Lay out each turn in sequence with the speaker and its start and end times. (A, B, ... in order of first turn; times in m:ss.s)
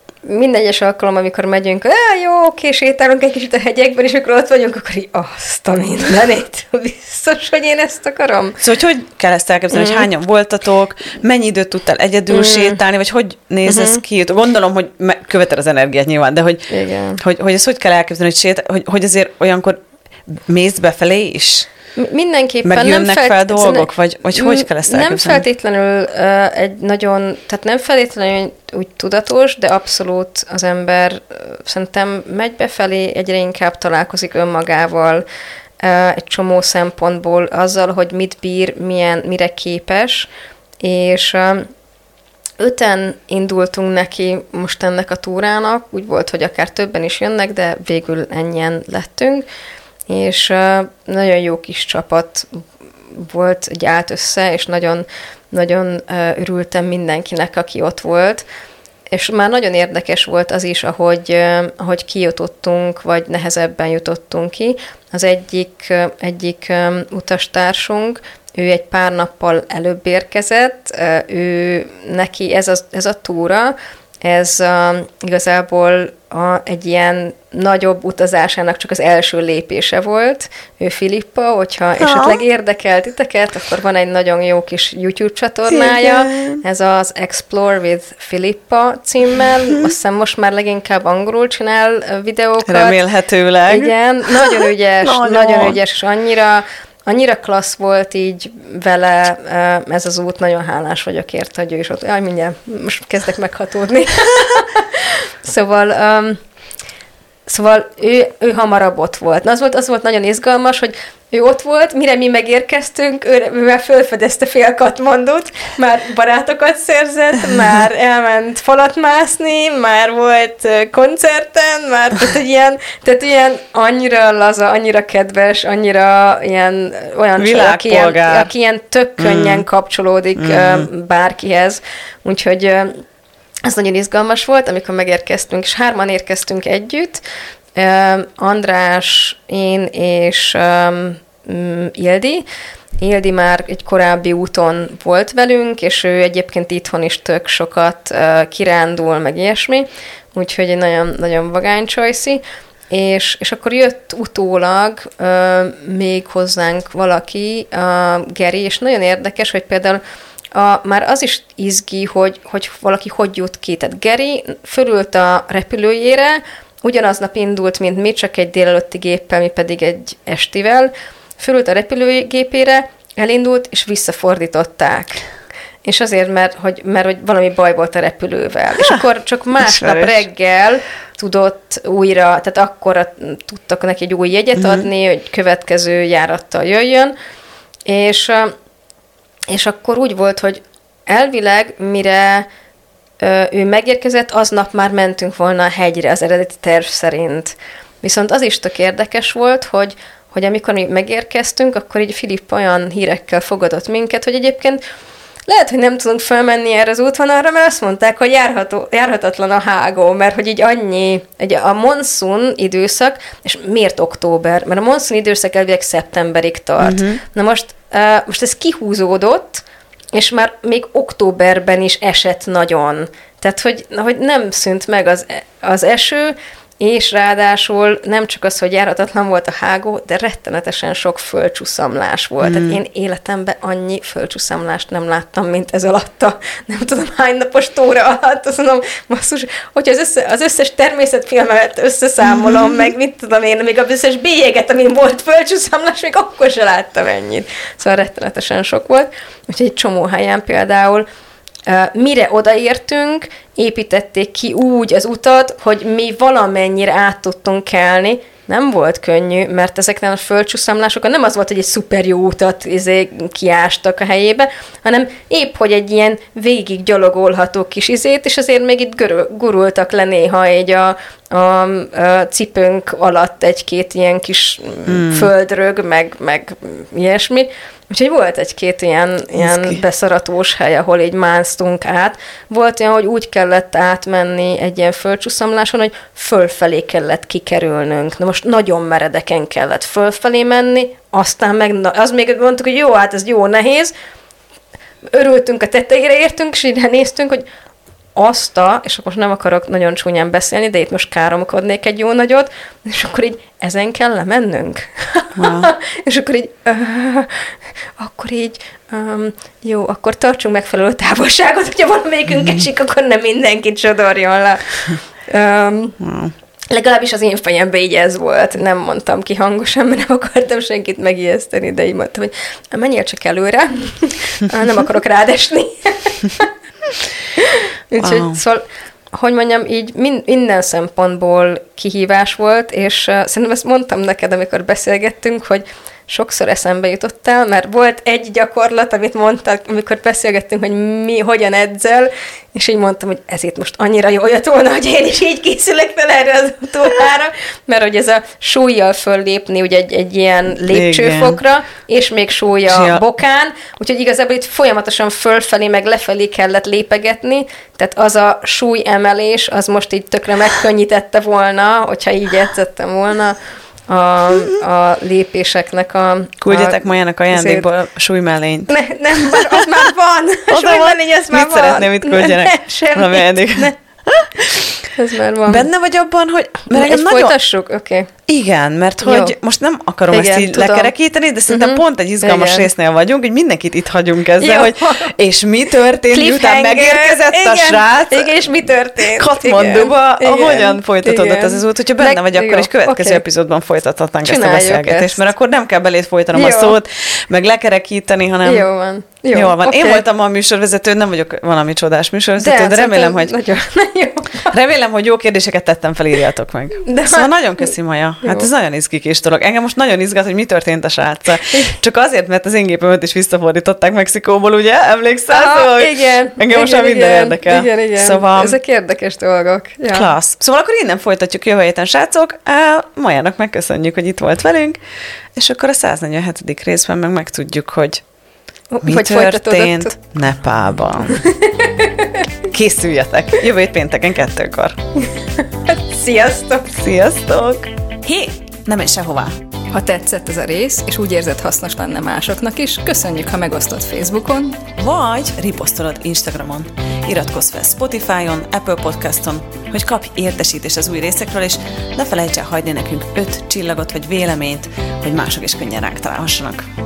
0:00.2-0:08.6 A
0:08.6-0:21.7 B
0:09.7-0:10.0 A
0:12.3-0:12.8 A
0:13.7-0:14.0 A
0:16.7-0:17.2 A
0:22.0-0:35.2 A
0:22.6-0:25.4 B
0:35.8-0:40.3 A
0:40.8-0:41.7 A
0:42.6-0:49.4 A
0:50.1-0:58.4 A
0:59.1-1:33.0 A
1:22.0-1:22.4 B
1:25.7-1:26.6 B
1:29.4-1:29.8 B
1:32.6-1:35.8 B
1:33.7-1:46.4 A
1:47.5-2:13.0 A
2:07.4-2:08.5 B
2:09.2-2:09.6 B
2:10.4-2:10.9 B
2:13.6-2:17.2 A
2:17.8-2:22.4 A
2:23.0-2:40.0 A
2:40.5-2:55.2 A
2:55.8-3:07.1 A
2:59.6-3:00.2 B
3:04.6-3:04.8 B
3:07.9-3:08.5 A
3:09.5-3:12.5 A
3:13.2-3:24.8 A
3:25.5-4:11.0 A
3:36.8-3:37.2 B
3:52.4-3:52.8 B
4:02.3-4:02.8 B
4:11.7-4:53.9 A
4:34.9-4:35.3 B
4:39.4-4:39.8 B
4:55.1-4:57.4 A
4:58.2-5:16.0 A
5:05.4-5:05.7 B
5:16.0-5:16.3 B
5:16.7-5:26.5 A
5:27.3-6:03.4 A
5:28.0-5:28.4 B
5:50.6-5:51.4 B
5:52.7-5:53.0 B
6:03.9-6:07.6 A
6:06.4-6:09.7 B
6:08.7-6:13.8 A
6:10.5-6:14.9 B
6:14.9-6:15.7 A
6:15.5-6:17.3 B
6:16.7-6:18.1 A
6:18.3-6:28.3 B
6:19.0-6:19.3 A
6:20.1-6:20.9 A
6:21.5-6:22.7 A
6:24.4-6:25.1 A
6:26.1-6:33.2 A
6:29.0-6:38.7 B
6:34.2-6:35.2 A
6:36.3-6:36.8 A
6:38.4-6:40.0 A
6:39.3-6:43.3 B
6:42.4-6:44.6 A
6:44.5-6:58.5 B
6:46.8-6:47.7 A
6:55.3-7:00.1 A
6:59.9-7:04.8 B
7:05.4-7:08.0 B
7:08.7-7:09.9 A
7:08.8-7:11.2 B
7:11.2-7:12.2 A
7:12.4-7:14.8 B
7:15.4-7:16.7 A
7:16.7-7:17.7 B
7:18.5-7:19.3 B
7:19.7-7:24.7 A
7:24.8-7:36.6 B